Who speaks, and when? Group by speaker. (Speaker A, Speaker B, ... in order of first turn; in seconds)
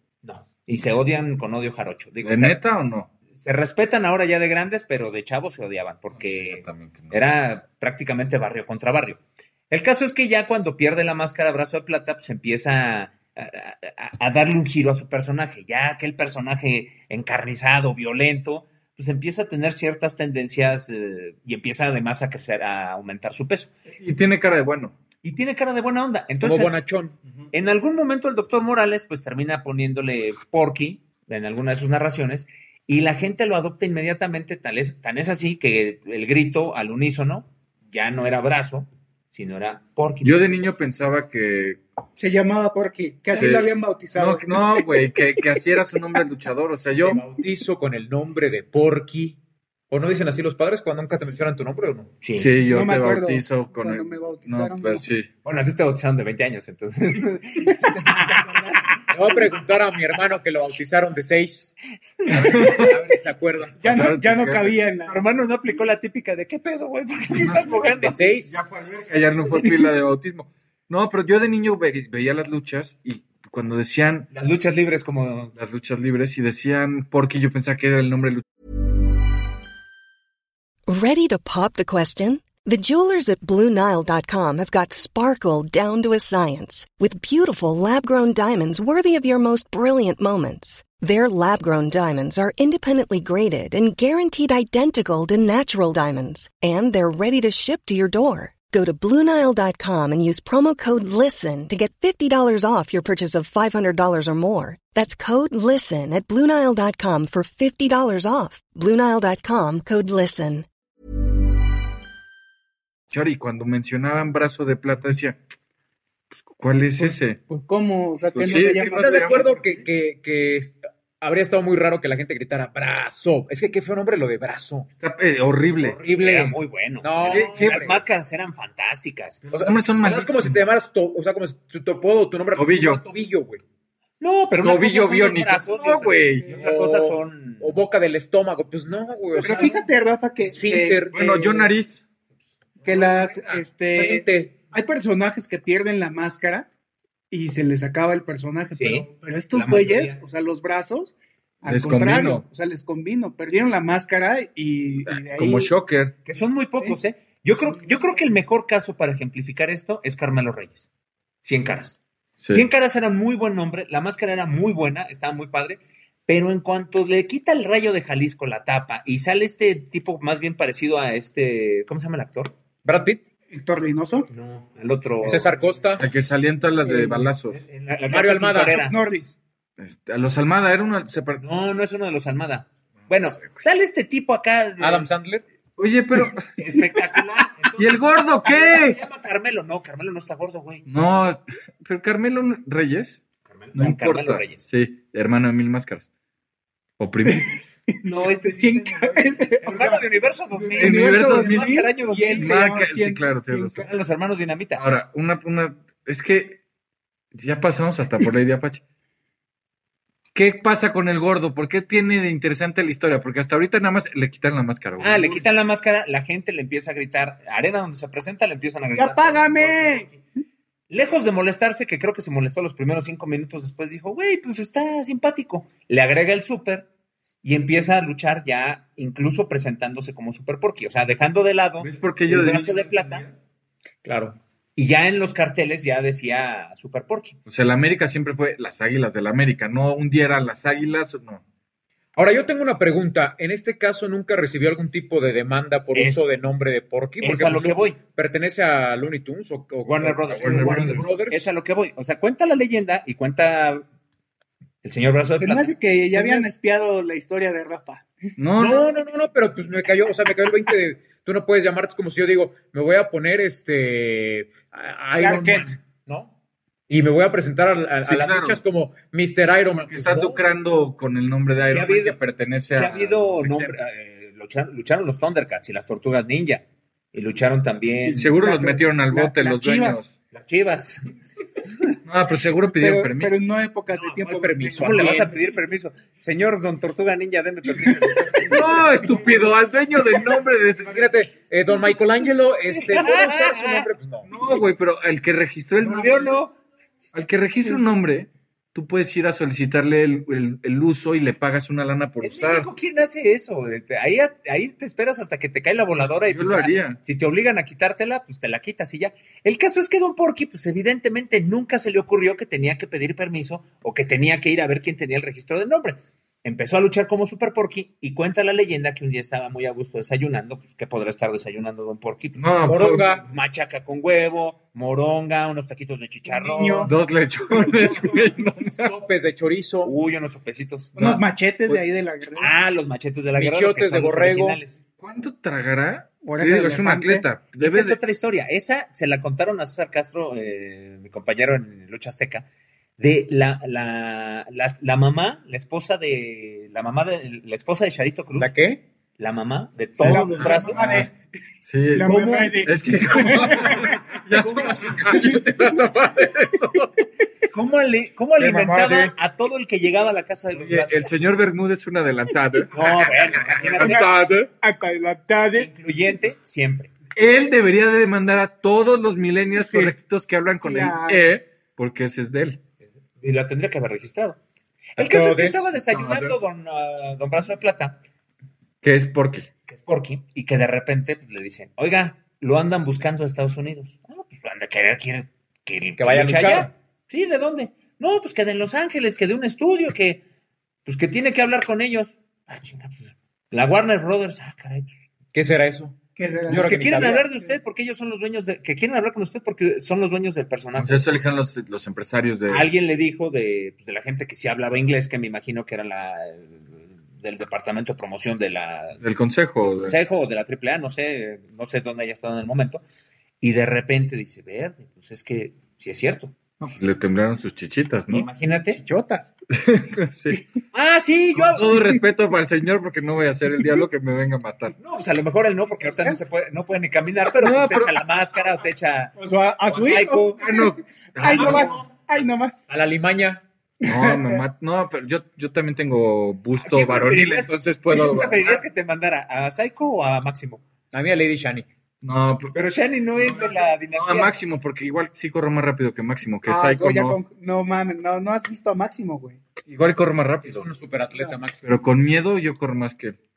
Speaker A: 0.2-2.6, 3.4-23.7, 25.2-26.7, 27.5-40.4, 52.2-52.5, 55.4-59.0, 62.2-62.9, 65.1-68.2, 74.3-75.5, 126.1-129.7, 134.2-137.7, 148.8-150.2, 156.2-160.9, 161.4-172.5, 174.3-175.8, 177.5-179.0, 181.4-185.1, 186.6-190.9, 193.5-194.7, 198.0-202.6, 203.8-204.8, 215.0-220.2, 220.9-226.9, 227.4-233.2, 234.8-237.4, 245.9-246.3, 247.2-248.0, 249.8-253.8, 254.8-256.4, 271.7-272.2, 272.8-278.3, 280.3-281.0, 284.8-288.6, 292.8-293.9, 295.8-296.6, 302.2-326.9, 329.8-331.0, 332.4-334.8, 337.6-342.5, 343.0-348.5, 349.2-350.9, 352.1-352.7, 357.5-361.1, 362.7-364.1, 365.5-366.9, 373.2-374.4, 375.0-378.0, 379.7-390.2, 390.9-394.9, 396.5-401.2, 402.5-409.0, 409.7-412.8, 413.4-416.4, 418.1-418.8, 420.7-421.9, 424.8-429.1, 429.6-430.4, 431.3-431.6, 436.6-440.6, 442.5-444.4
Speaker B: 2.2-3.1, 6.1-7.2, 23.9-24.9, 40.2-41.8, 43.3-47.2, 52.4-55.3, 62.3-62.9, 63.8-64.8, 68.5-74.3, 75.5-78.4, 113.1-115.4, 116.3-117.4, 118.3-119.8, 125.0-126.0, 127.2-127.8, 129.5-130.7, 132.6-133.0, 134.6-136.5, 141.1-142.0, 151.6-152.5, 155.1-156.2, 162.4-162.7, 176.0-177.6, 179.8-181.4, 185.8-186.5, 187.8-189.0, 190.9-193.2, 193.7-196.1, 197.0-197.5, 200.8-203.9, 204.8-206.6, 207.3-208.8, 210.3-215.4, 231.8-233.3, 237.5-241.4, 250.3-251.2, 258.4-258.8, 268.0-268.6, 269.8-273.8, 278.1-280.1, 282.1-283.3, 288.5-291.1, 294.3-296.4, 297.1-302.7, 306.0-307.0, 322.4-323.2, 326.9-328.9, 331.0-331.2, 335.0-338.0, 350.0-351.1, 351.6-355.9, 358.4-359.1, 360.6-364.5, 367.1-372.6, 375.9-376.4, 378.8-379.5, 400.8-402.7, 409.0-410.0, 416.6-418.3, 419.5-420.4, 421.3-424.8, 427.4-428.0, 430.4-431.8, 433.8-438.6, 442.0-442.5, 443.2-447.2, 449.6-450.7, 451.6-453.2
Speaker C: 26.4-27.2, 47.0-49.4, 49.9-52.1, 59.1-61.8, 62.3-63.8, 68.0-68.6, 118.8-124.9, 125.8-128.0, 129.9-133.6, 136.6-139.8, 140.4-141.2, 142.8-144.5, 172.8-173.2, 175.2-176.1, 178.1-178.8, 184.8-185.4, 234.0-234.4, 242.2-251.5, 258.6-266.3, 266.9-270.4, 283.9-285.4, 290.9-294.3, 322.7-323.2, 328.6-329.9, 333.4-334.6, 348.4-348.8, 353.6-356.9, 362.8-364.4, 375.0-375.8, 386.0-386.7, 395.3-397.2, 432.7-433.4, 440.9-441.7, 450.4-451.7
Speaker D: 42.2-45.2, 52.6-55.0, 57.9-59.0, 63.8-65.2, 117.0-119.5, 139.3-141.7, 142.8-146.7, 147.3-155.7, 157.7-158.2, 173.5-174.3, 176.8-177.3, 178.7-179.4, 197.3-203.8, 218.9-220.2, 255.3-258.1, 265.1-265.7, 278.3-280.1, 282.7-285.4, 288.1-288.6, 326.3-327.0, 330.9-332.6, 336.2-337.3, 350.0-351.1, 351.9-354.0, 364.6-365.7, 369.6-369.9, 370.6-371.3, 396.2-397.5, 418.7-419.3, 425.7-426.2, 429.2-432.7, 433.9-434.4, 446.5-449.4
Speaker E: 80.9-110.7